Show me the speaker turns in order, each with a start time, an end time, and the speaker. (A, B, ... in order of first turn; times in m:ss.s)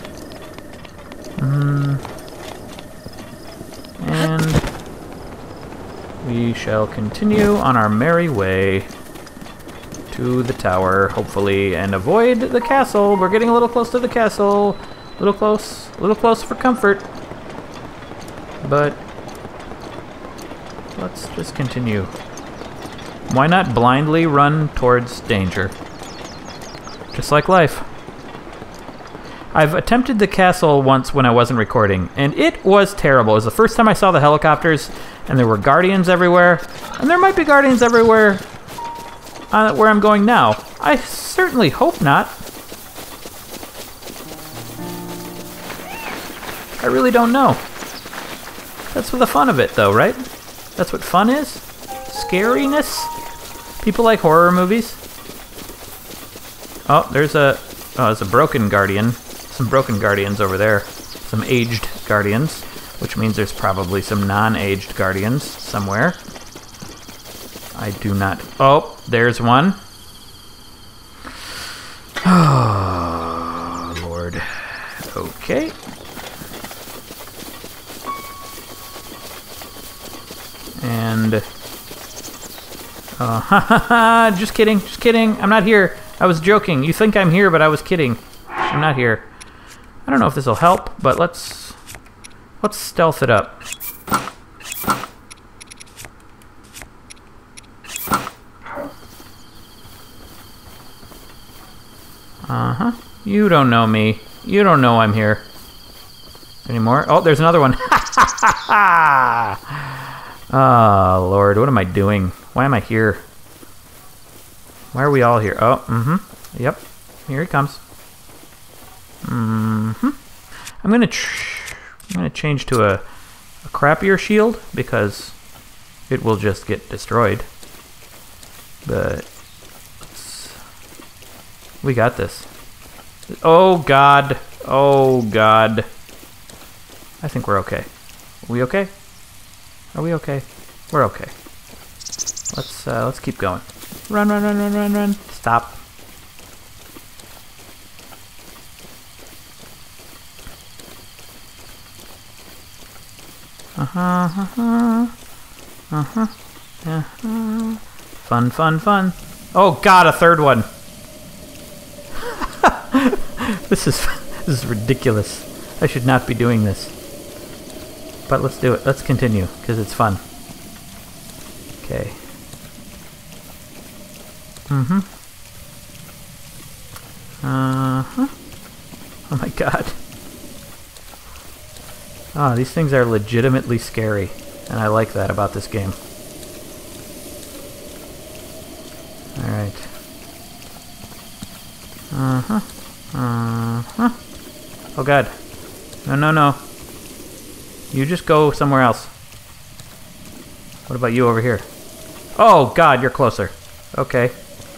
0:01.4-0:02.0 A
0:04.0-0:04.6 A
0:06.2-0:08.9 A
0:10.1-0:17.1 A
0:18.6-0:19.0 A
0:21.0-0:22.1 A
0:23.3-0:25.8 A
0:27.1-0:27.9 A
0:29.5-0:38.4 A
0:39.5-0:42.4 A
0:46.8-0:47.6 A
0:48.9-0:50.2 A
0:50.8-0:53.1 A
0:53.8-0:55.0 A
0:56.9-1:06.2 A
1:07.8-1:09.8 A
1:12.2-1:15.8 A
1:20.8-1:21.4 A
1:23.2-1:29.2 A
1:30.0-1:31.8 A
1:32.6-1:33.6 A
1:42.5-1:45.4 A
1:46.6-1:53.2 A
1:54.9-1:57.8 A
1:59.2-2:00.2 A
2:00.8-2:03.0 A
2:03.6-2:05.4 A
2:06.1-2:07.5 A
2:08.8-2:09.3 A
2:10.1-2:10.6 A
2:11.8-2:12.5 A
2:13.4-2:15.9 A
2:17.2-2:17.9 A
2:18.4-2:18.9 A
2:19.9-2:21.3 A
2:22.5-2:25.8 A
2:33.8-2:35.1 A
2:35.9-2:36.3 A
2:36.8-2:40.7 A
2:42.2-2:46.9 A
2:48.3-2:50.2 A
2:51.8-2:52.2 A
2:54.7-2:55.0 A
2:57.4-2:58.3 A
2:59.3-3:00.0 A
3:02.4-3:06.0 A
3:09.4-3:09.9 A
3:12.1-3:14.2 A
3:15.0-3:15.3 A
3:16.0-3:16.6 A
3:17.9-3:19.1 A
3:20.9-3:21.7 A
3:22.4-3:24.4 A